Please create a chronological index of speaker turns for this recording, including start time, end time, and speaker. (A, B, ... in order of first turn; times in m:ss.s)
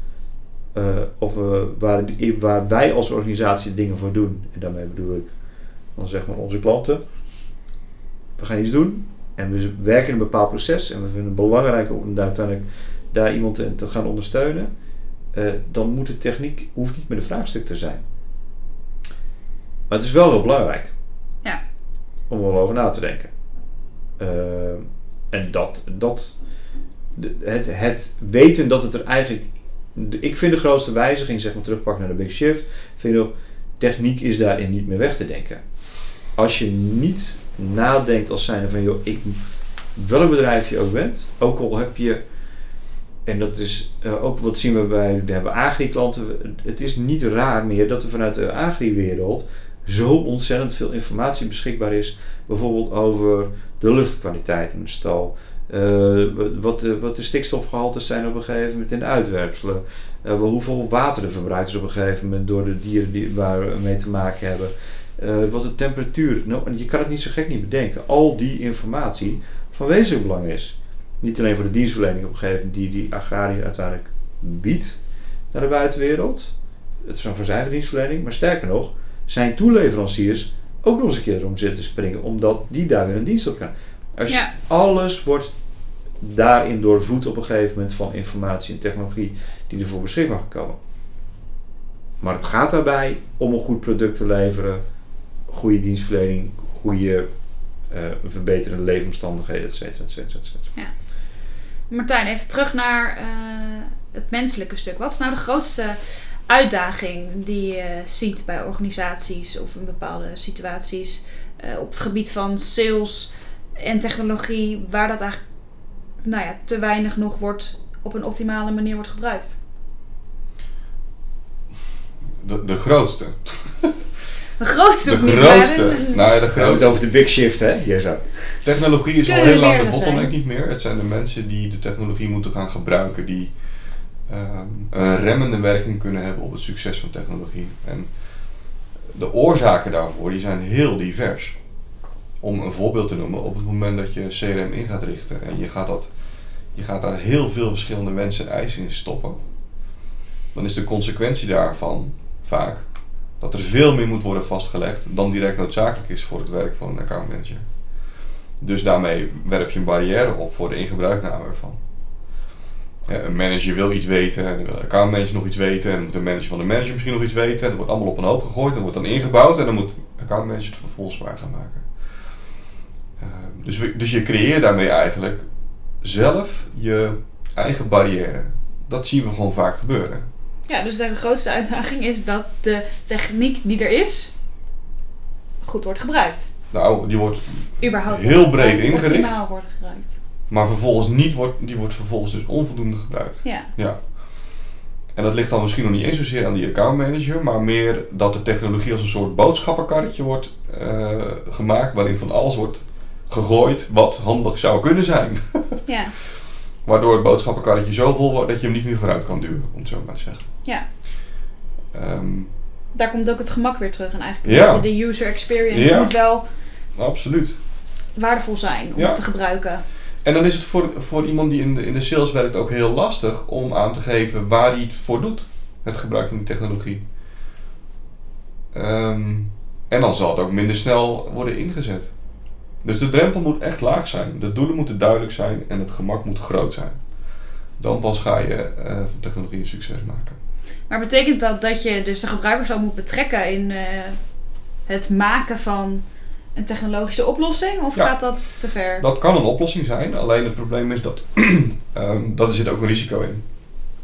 0:00.8-0:05.3 A
0:06.0-0:07.0 A
0:08.4-0:14.7 A
0:15.3-0:18.0 A
0:19.9-0:20.9 A
0:22.3-0:23.3 A
0:24.2-0:26.4 A
0:27.2-0:35.6 A
0:36.4-0:39.4 A
0:40.0-0:42.2 A
0:43.3-1:15.0 A
1:15.5-1:25.5 A
1:26.2-1:30.8 A
1:32.2-1:34.8 A
1:35.5-1:37.3 A
1:37.9-1:40.7 A
1:41.9-1:55.4 B
1:56.2-1:59.6 B
2:02.4-2:04.0 C
2:04.6-2:06.2 B
2:05.0-2:07.0 C
2:06.5-2:08.6 A
2:08.6-2:13.5 C
2:09.2-2:10.3 B
2:14.2-2:18.2 C
2:19.1-2:21.6 C
2:22.4-2:26.1 C
2:26.7-2:29.4 C
2:30.5-2:32.9 C
2:33.4-2:37.6 C
2:38.6-2:41.8 C
2:43.1-2:51.9 C
2:53.2-2:55.4 C
2:56.0-3:00.3 C
3:00.7-3:04.3 B
3:05.6-3:06.5 B
3:06.7-3:09.4 C
3:07.8-3:10.2 B
3:10.5-3:14.6 C
3:13.4-3:13.7 B
3:15.1-3:25.8 C
3:25.9-3:26.2 B
3:26.8-3:30.5 C
3:31.9-3:32.5 C
3:33.0-3:36.4 B
3:34.4-3:34.9 C
3:35.7-3:36.1 C
3:37.0-3:37.6 C
3:38.2-3:39.8 B
3:39.0-3:39.2 C
3:40.2-3:47.0 C
3:48.7-3:52.1 C
3:52.8-3:57.0 C
3:57.8-4:00.4 C
4:00.9-4:04.2 B
4:04.9-4:06.0 B
4:06.6-4:09.0 B
4:09.0-4:13.4 C